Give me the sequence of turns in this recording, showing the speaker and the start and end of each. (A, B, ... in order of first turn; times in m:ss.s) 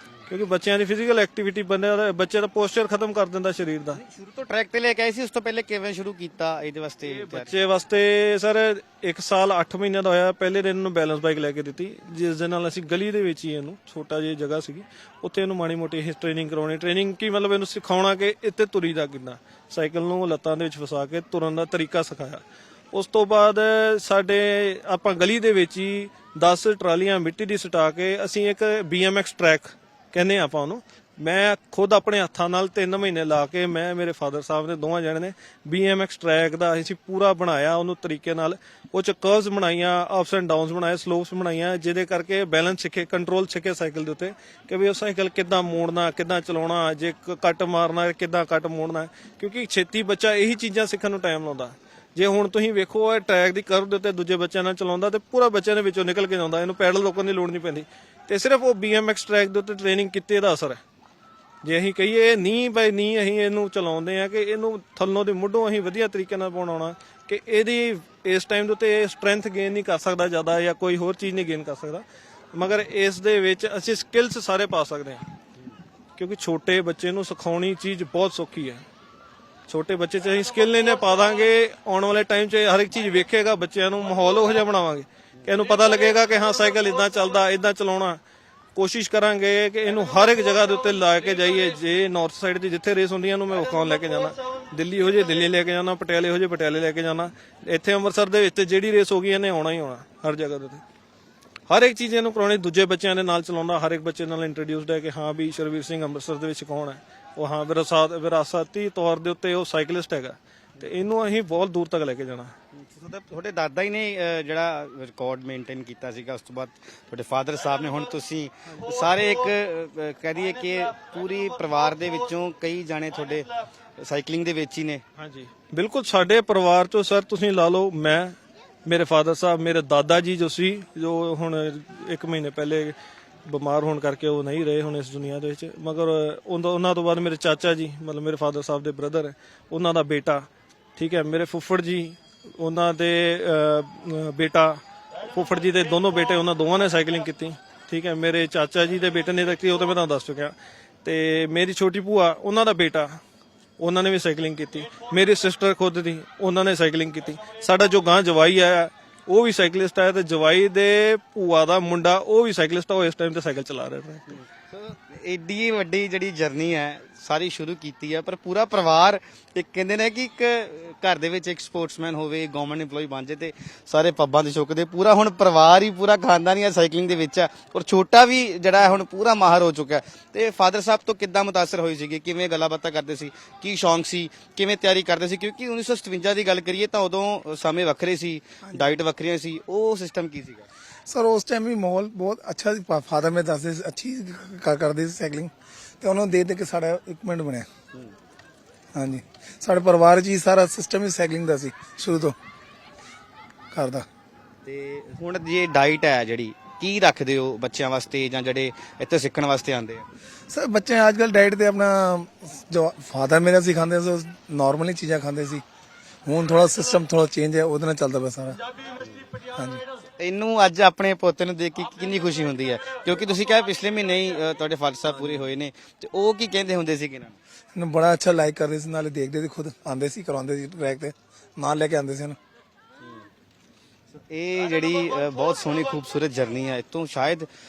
0:00.3-0:04.0 A
0:03.9-0:07.5 B
0:07.0-1:00.8 A
1:01.6-1:15.2 A
1:16.2-1:18.8 A
1:19.7-1:28.2 A
1:28.7-1:40.8 A
1:41.7-1:52.6 A
1:52.7-2:05.0 B
2:05.2-2:24.8 A
2:25.3-2:33.2 A
2:33.8-2:44.4 A
2:44.3-3:10.7 B
3:11.1-3:17.7 C
3:18.9-3:22.4 C
3:23.7-3:24.1 C
3:24.7-3:30.0 B
3:30.5-3:35.6 C
3:36.2-3:38.6 C
3:39.5-3:39.8 C
3:40.2-3:47.4 B
3:47.7-3:52.4 C
3:53.0-3:53.2 B
3:54.2-3:57.5 B